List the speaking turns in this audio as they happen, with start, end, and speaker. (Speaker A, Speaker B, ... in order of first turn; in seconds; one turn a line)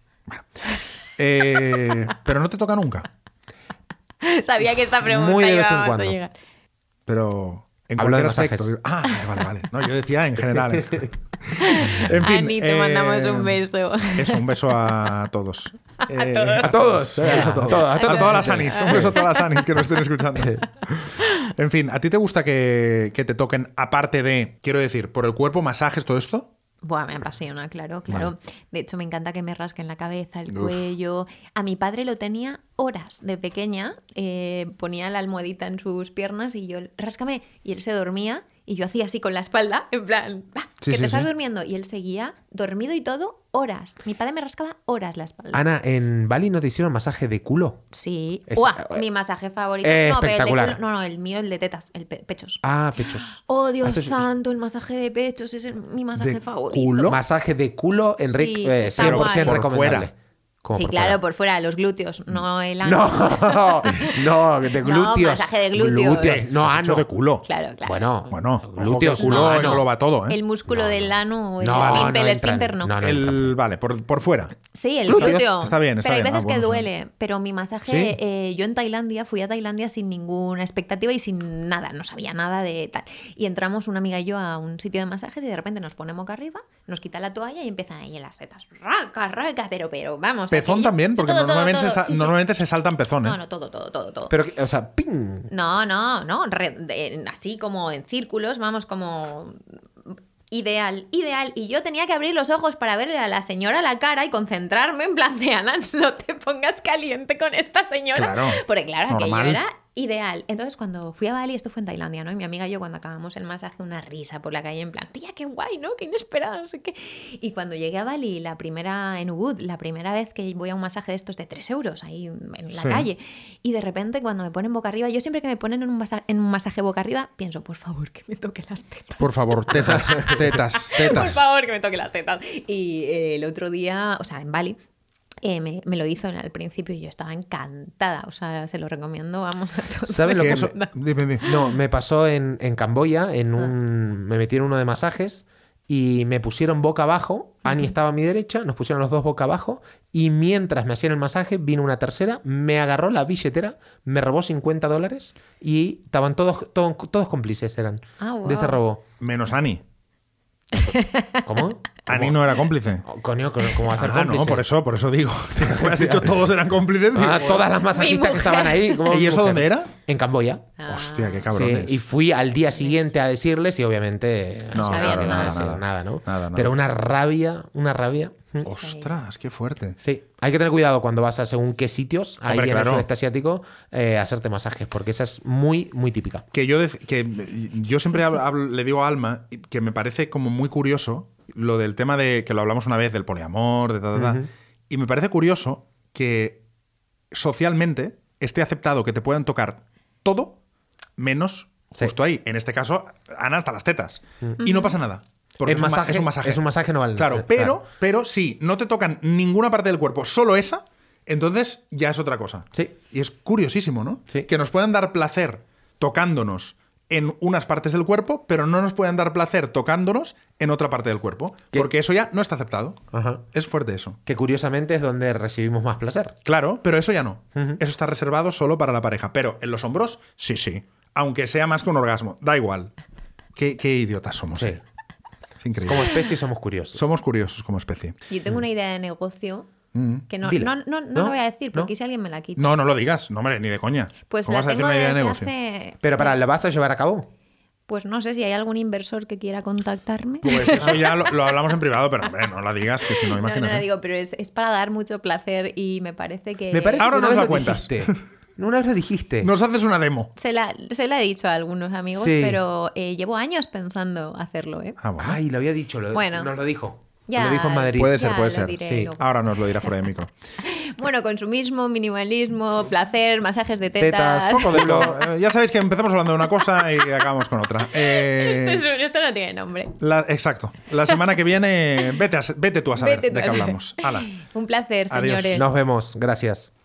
Speaker A: 0.3-3.1
Speaker B: 4.2-6.3
Speaker C: 5.0-6.2
Speaker A: 7.1-13.6
Speaker C: 8.0-8.7
Speaker B: 11.6-14.6
Speaker A: 14.1-26.5
Speaker B: 16.0-19.3
Speaker C: 16.6-19.2
Speaker B: 26.8-45.6
Speaker A: 30.5-30.8
Speaker A: 40.8-41.3
Speaker C: 45.5-47.9
Speaker B: 47.9-52.6
Speaker C: 48.5-49.0
Speaker C: 49.8-50.8
Speaker C: 52.6-54.2
Speaker B: 53.2-57.2
Speaker A: 56.2-57.2
Speaker C: 57.1-60.1
Speaker B: 58.2-59.6
Speaker A: 59.0-60.1
Speaker C: 60.6-61.2
Speaker B: 60.8-64.2
Speaker C: 62.8-67.1
Speaker B: 64.8-66.5
Speaker A: 66.2-67.5
Speaker B: 67.5-68.0
Speaker C: 67.8-69.8
Speaker A: 68.3-70.4
Speaker B: 69.2-73.0
Speaker C: 70.7-73.5
Speaker A: 71.7-72.1
Speaker A: 73.0-76.9
Speaker B: 74.7-92.4
Speaker C: 75.1-75.5
Speaker C: 77.9-78.2
Speaker A: 90.5-93.4
Speaker B: 93.2-94.3
Speaker C: 94.3-95.5
Speaker B: 95.5-134.8
Speaker A: 108.2-109.6
Speaker A: 122.8-123.1
Speaker A: 129.2-131.4
Speaker B: 135.4-140.9
Speaker C: 140.0-140.8
Speaker A: 140.3-141.4
Speaker C: 141.4-159.0
Speaker B: 158.2-158.8
Speaker A: 159.2-159.8
Speaker B: 160.7-161.5
Speaker C: 161.5-162.4
Speaker A: 162.1-163.1
Speaker C: 163.0-164.7
Speaker A: 163.9-167.7
Speaker C: 165.6-166.3
Speaker C: 167.2-170.7
Speaker B: 167.9-169.0
Speaker A: 169.1-169.9
Speaker B: 170.8-171.5
Speaker A: 170.9-172.0
Speaker C: 171.5-178.7
Speaker B: 172.8-173.1
Speaker A: 174.7-176.7
Speaker B: 174.8-175.5
Speaker B: 178.6-179.2
Speaker A: 178.6-180.0
Speaker C: 180.0-186.4
Speaker A: 182.5-183.1
Speaker A: 186.5-196.6
Speaker C: 194.1-194.5
Speaker A: 197.3-200.6
Speaker A: 201.2-206.6
Speaker B: 204.6-204.9
Speaker C: 205.7-207.8
Speaker A: 207.2-223.0
Speaker C: 223.1-223.4
Speaker A: 223.5-224.2
Speaker C: 224.3-226.4
Speaker A: 226.4-232.9
Speaker A: 233.6-234.8
Speaker C: 234.6-234.8
Speaker A: 235.6-236.1
Speaker C: 235.8-237.0
Speaker A: 236.9-238.2
Speaker B: 238.3-239.7
Speaker A: 239.9-240.3
Speaker B: 240.3-242.7
Speaker C: 240.4-241.9
Speaker A: 242.6-245.5
Speaker B: 244.3-246.4
Speaker C: 246.0-247.3
Speaker B: 247.9-251.6
Speaker A: 250.4-253.9
Speaker B: 253.0-257.1
Speaker C: 256.7-259.5
Speaker A: 257.0-258.2
Speaker A: 259.4-260.3
Speaker B: 260.4-265.0
Speaker C: 262.1-262.6
Speaker A: 265.0-265.4
Speaker C: 265.2-268.1
Speaker B: 266.1-266.5
Speaker B: 267.3-269.3
Speaker A: 267.9-270.3
Speaker C: 268.9-269.1
Speaker B: 270.6-275.1
Speaker C: 274.0-275.2
Speaker A: 274.6-278.8
Speaker B: 277.9-279.9
Speaker A: 280.0-284.3
Speaker B: 283.0-285.7
Speaker A: 285.1-285.6
Speaker C: 285.6-286.7